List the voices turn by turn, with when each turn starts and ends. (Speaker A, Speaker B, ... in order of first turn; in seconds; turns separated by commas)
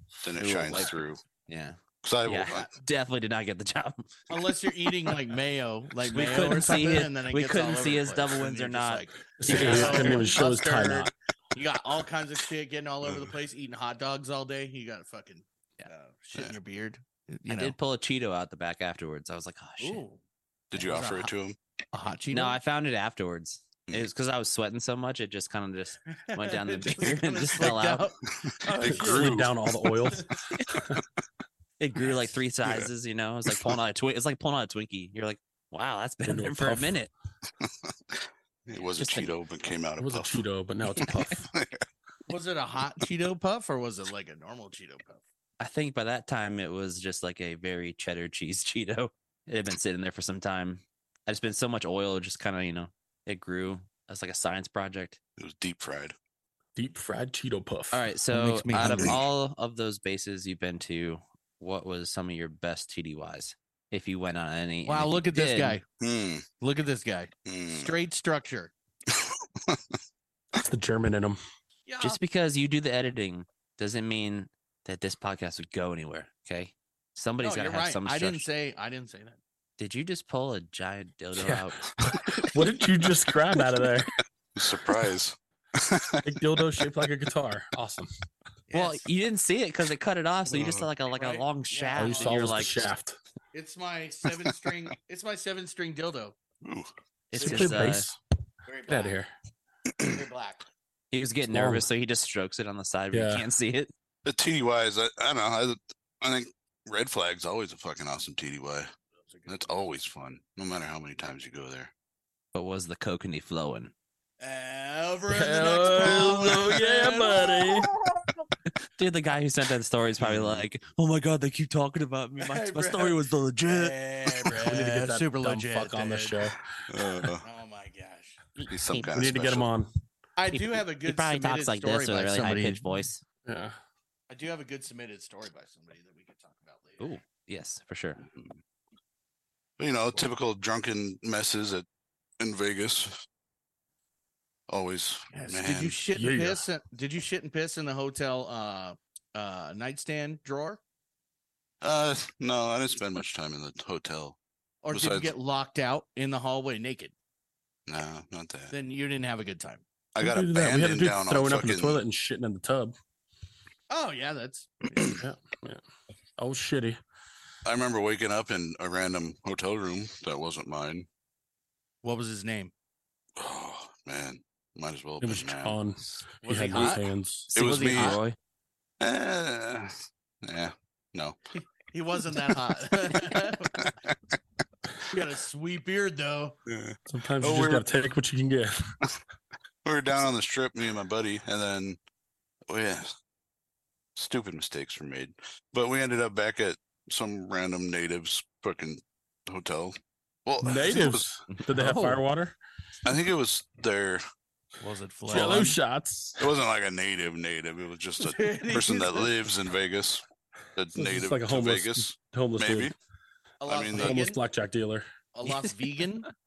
Speaker A: 0.2-1.2, Speaker B: 0.4-4.3, Speaker A: 2.0-2.7, Speaker C: 4.3-17.8, Speaker B: 6.0-10.2, Speaker D: 9.4-11.1, Speaker A: 9.5-10.2, Speaker B: 17.5-20.0, Speaker C: 19.8-20.2, Speaker A: 20.7-21.6, Speaker C: 20.7-21.3, Speaker C: 21.9-22.6, Speaker B: 22.3-28.1, Speaker C: 26.1-29.5, Speaker A: 28.3-29.6, Speaker D: 28.8-31.0, Speaker C: 30.0-30.3, Speaker B: 31.8-37.1, Speaker A: 32.6-32.9, Speaker A: 33.5-33.8, Speaker D: 36.2-37.0, Speaker A: 37.6-40.4, Speaker B: 39.0-39.3, Speaker D: 40.0-41.5, Speaker A: 41.0-41.8, Speaker C: 42.3-45.2, Speaker B: 45.6-55.2, Speaker A: 55.4-56.1, Speaker D: 56.8-58.0, Speaker B: 57.9-65.8, Speaker C: 58.3-59.2, Speaker A: 58.8-59.2, Speaker C: 64.8-65.8, Speaker A: 66.0-66.5, Speaker C: 66.6-68.7, Speaker A: 67.5-67.9, Speaker A: 69.1-70.0, Speaker D: 70.5-71.4, Speaker C: 71.8-72.2, Speaker B: 72.0-78.5, Speaker C: 77.4-79.4, Speaker B: 79.8-81.8, Speaker D: 81.3-84.1, Speaker A: 82.0-82.6, Speaker A: 84.5-86.8, Speaker D: 86.2-88.1, Speaker C: 88.7-89.0, Speaker B: 88.7-92.9, Speaker A: 90.5-90.9, Speaker C: 91.1-92.7, Speaker D: 92.0-93.2, Speaker C: 93.5-96.4, Speaker A: 96.6-96.9, Speaker B: 97.3-98.1, Speaker C: 97.3-97.9, Speaker D: 97.3-98.2, Speaker C: 98.6-99.1, Speaker D: 98.9-99.3, Speaker A: 99.9-100.2, Speaker C: 100.0-100.7, Speaker B: 101.1-103.9, Speaker D: 101.5-101.8, Speaker D: 103.1-103.4, Speaker A: 104.2-108.9, Speaker C: 109.2-109.6, Speaker A: 109.5-111.9, Speaker B: 112.5-113.9, Speaker C: 114.4-118.5, Speaker D: 115.3-117.9, Speaker B: 118.8-124.5, Speaker A: 120.2-120.6, Speaker C: 122.4-126.3, Speaker D: 124.6-127.2, Speaker A: 126.9-127.4, Speaker C: 127.4-128.4, Speaker B: 128.6-129.1, Speaker A: 128.7-129.7, Speaker D: 129.1-129.9, Speaker C: 130.4-132.8, Speaker B: 130.5-133.2, Speaker D: 133.4-133.8, Speaker C: 134.3-137.1, Speaker B: 137.0-138.2, Speaker A: 138.3-138.6, Speaker A: 139.8-141.8, Speaker A: 142.4-143.2, Speaker A: 144.7-146.0, Speaker C: 145.3-150.8, Speaker D: 146.1-146.6, Speaker A: 151.8-154.4, Speaker C: 154.8-157.1, Speaker A: 154.9-155.3, Speaker A: 157.9-158.7, Speaker C: 158.7-159.8, Speaker A: 160.1-162.0, Speaker D: 160.2-162.9, Speaker C: 163.9-165.2, Speaker D: 165.2-165.8, Speaker D: 166.4-167.0, Speaker A: 167.6-171.1, Speaker C: 172.0-172.7, Speaker A: 173.4-175.8, Speaker D: 175.2-177.5, Speaker C: 176.4-178.2, Speaker A: 176.7-177.0, Speaker A: 177.5-178.2, Speaker B: 177.9-178.3, Speaker A: 179.0-181.4, Speaker C: 181.6-183.9, Speaker A: 183.4-184.1, Speaker C: 185.1-186.6, Speaker A: 186.7-187.9, Speaker D: 187.1-188.9, Speaker A: 189.8-192.0, Speaker A: 192.7-193.1, Speaker A: 194.2-201.3, Speaker D: 200.6-202.6, Speaker B: 201.5-202.2, Speaker A: 203.0-204.2, Speaker C: 204.8-205.8, Speaker D: 205.3-206.5, Speaker A: 206.4-212.9, Speaker C: 208.2-209.3, Speaker D: 210.9-212.9, Speaker C: 213.6-214.4, Speaker A: 213.7-214.2, Speaker D: 213.9-215.1, Speaker C: 215.3-216.3, Speaker B: 215.4-215.7